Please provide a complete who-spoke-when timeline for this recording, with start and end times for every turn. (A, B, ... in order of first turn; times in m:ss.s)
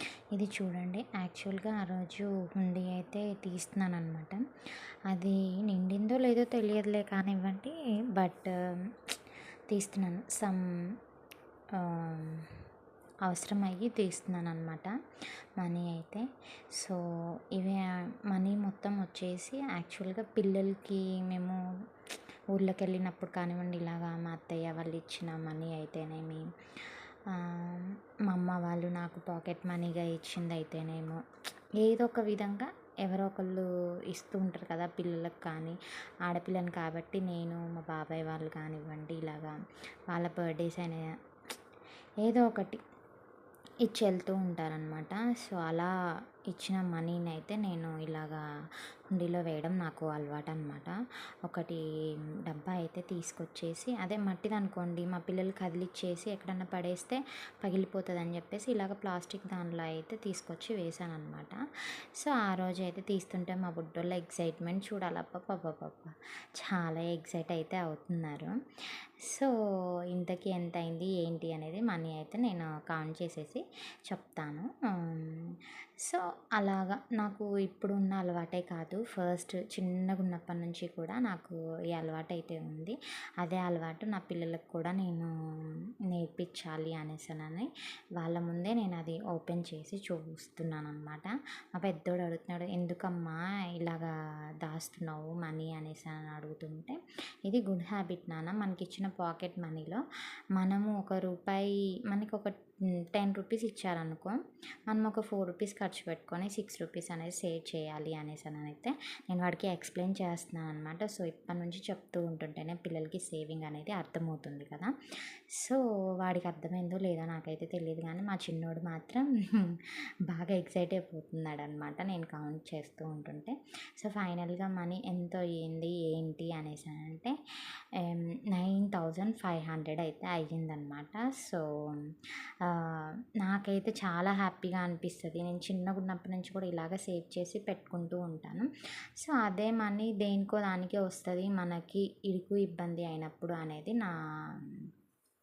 0:00.3-0:04.4 A
0:05.1-0:09.0 A
0:09.7-0:10.6 A
0:11.8-0:12.5 A
0:13.3-0:14.9 A
0:15.6-0:17.0 A
0:17.5-0:21.6 A
0:22.5-0:31.2 A
0:31.8-0:39.6 A
0:40.1-0:41.1 A
0:42.2-0:42.8 A
0:43.8-0:45.9 A
0:46.5-0:48.4 A
0:49.1-0:51.8 A
0:52.4-1:01.6 A
1:02.1-1:08.6 A
1:09.2-1:09.5 A
1:10.1-1:25.3 A
1:26.1-1:40.0 A
1:40.6-1:54.9 A
1:55.6-2:07.4 A
2:07.9-2:24.8 A